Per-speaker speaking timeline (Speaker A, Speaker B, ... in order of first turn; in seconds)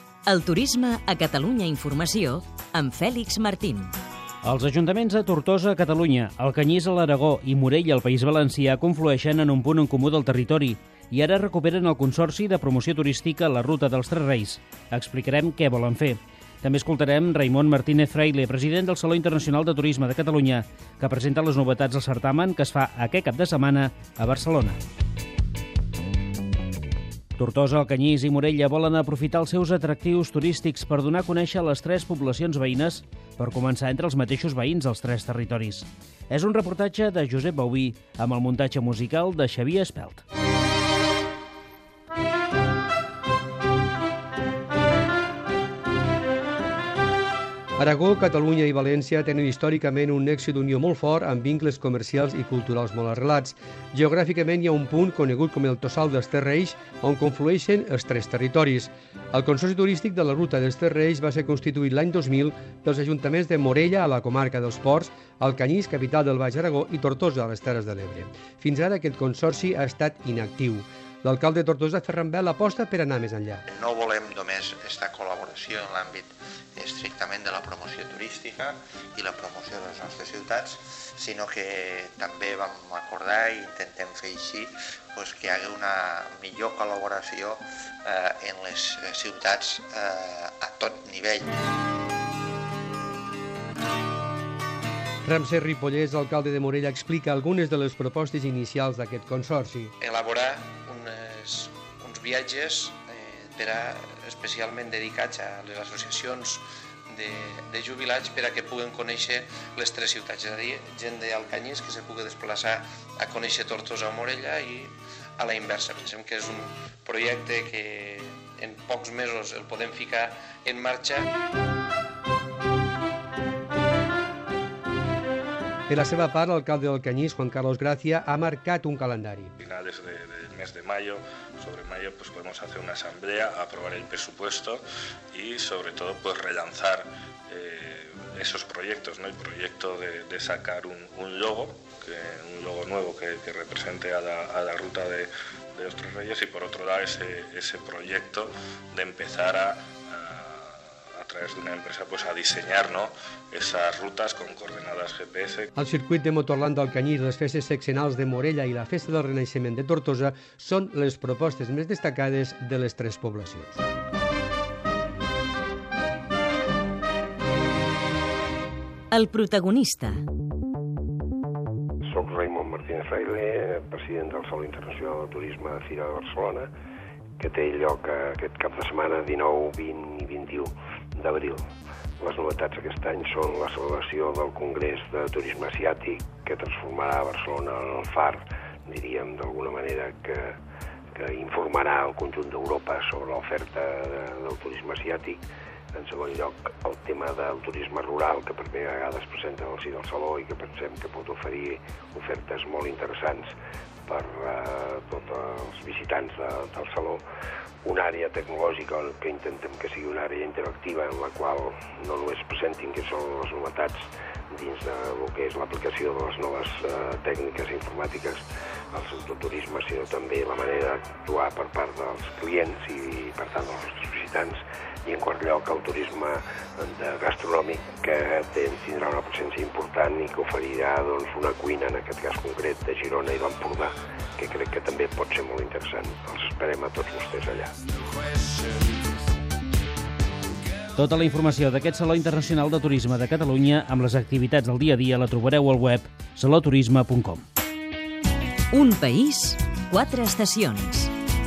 Speaker A: 0.3-3.9, 169.1-170.2, 248.7-251.1
Speaker B: 4.4-24.8, 27.4-40.2, 241.0-247.4
Speaker C: 47.8-73.6, 95.2-99.9, 125.9-129.5, 155.8-163.8
Speaker D: 73.7-91.5
Speaker E: 100.0-121.3
Speaker F: 129.6-134.8, 135.3-155.7
Speaker G: 172.1-176.7, 177.4-181.7, 182.2-190.6, 191.2-195.4, 195.9-203.5, 204.1-207.2, 207.8-237.8